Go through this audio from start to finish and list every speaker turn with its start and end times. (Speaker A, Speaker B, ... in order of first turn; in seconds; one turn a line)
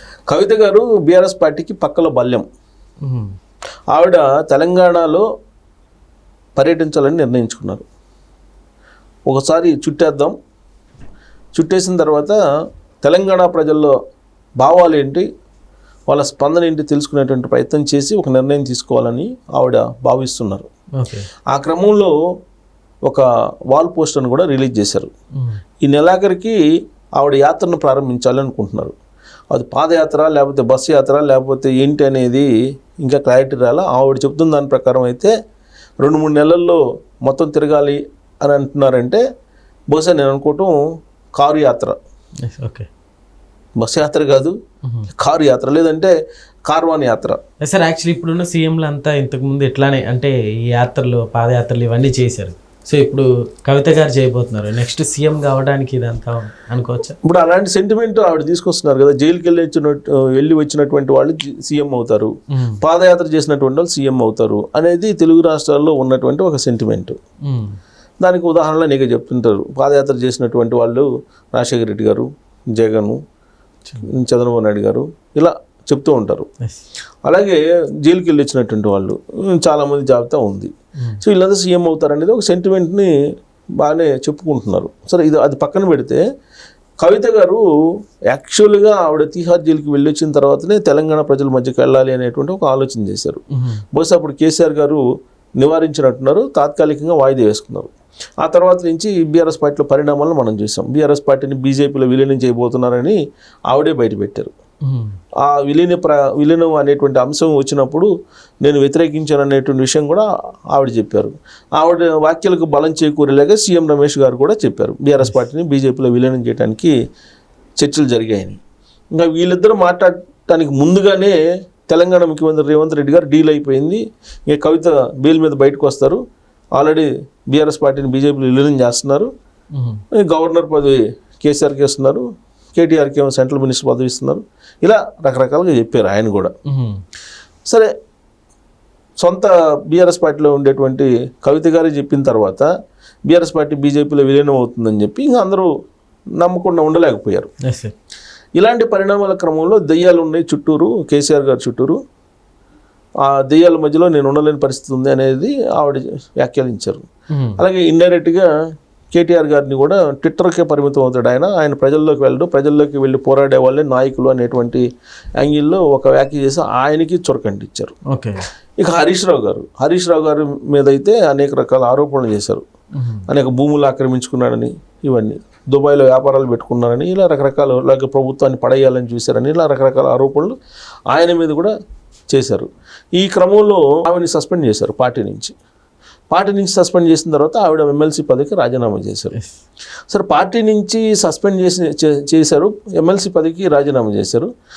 Speaker A: 0.3-2.4
Speaker B: 3.0-3.3
Speaker A: 3.9-5.2
Speaker A: 6.5-7.8
Speaker A: 9.3-10.3
Speaker A: 11.5-12.4
Speaker A: 13.0-13.9
Speaker A: 14.6-15.2
Speaker A: 16.1-20.7
Speaker B: 21.0-21.3
Speaker A: 21.5-22.1
Speaker A: 23.0-25.1
Speaker A: 25.8-26.6
Speaker A: 27.2-28.9
Speaker A: 29.5-32.5
Speaker A: 33.0-35.3
Speaker A: 36.0-39.2
Speaker A: 39.9-40.7
Speaker A: 41.3-41.9
Speaker B: 42.5-42.9
Speaker A: 43.8-44.5
Speaker B: 44.8-45.1
Speaker A: 45.2-46.1
Speaker A: 46.6-47.4
Speaker B: 47.6-57.1
Speaker A: 57.2-67.2
Speaker B: 67.5-67.8
Speaker A: 68.2-73.2
Speaker A: 74.0-76.5
Speaker A: 77.2-80.7
Speaker A: 81.2-83.1
Speaker A: 83.8-86.2
Speaker A: 87.0-87.6
Speaker A: 88.3-93.4
Speaker B: 93.5-93.8
Speaker A: 93.9-95.0
Speaker A: 95.6-103.2
Speaker A: 103.7-104.5
Speaker B: 104.8-105.1
Speaker A: 105.4-108.1
Speaker A: 108.6-116.9
Speaker A: 117.8-118.6
Speaker A: 119.1-121.3
Speaker A: 121.9-126.2
Speaker A: 126.8-129.3
Speaker B: 129.8-130.0
Speaker A: 130.2-132.2
Speaker A: 132.7-136.5
Speaker B: 136.7-137.0
Speaker A: 139.2-142.7
Speaker A: 143.3-145.7
Speaker A: 146.4-147.5
Speaker B: 147.6-147.9
Speaker A: 148.6-152.0
Speaker A: 153.2-157.0
Speaker B: 157.3-157.6
Speaker A: 157.6-158.5
Speaker A: 159.1-164.8
Speaker A: 165.4-167.9
Speaker B: 168.1-168.4
Speaker A: 168.8-172.6
Speaker B: 172.9-173.2
Speaker A: 173.3-180.5
Speaker A: 181.1-181.7
Speaker A: 182.3-185.5
Speaker A: 186.3-189.3
Speaker A: 190.1-194.5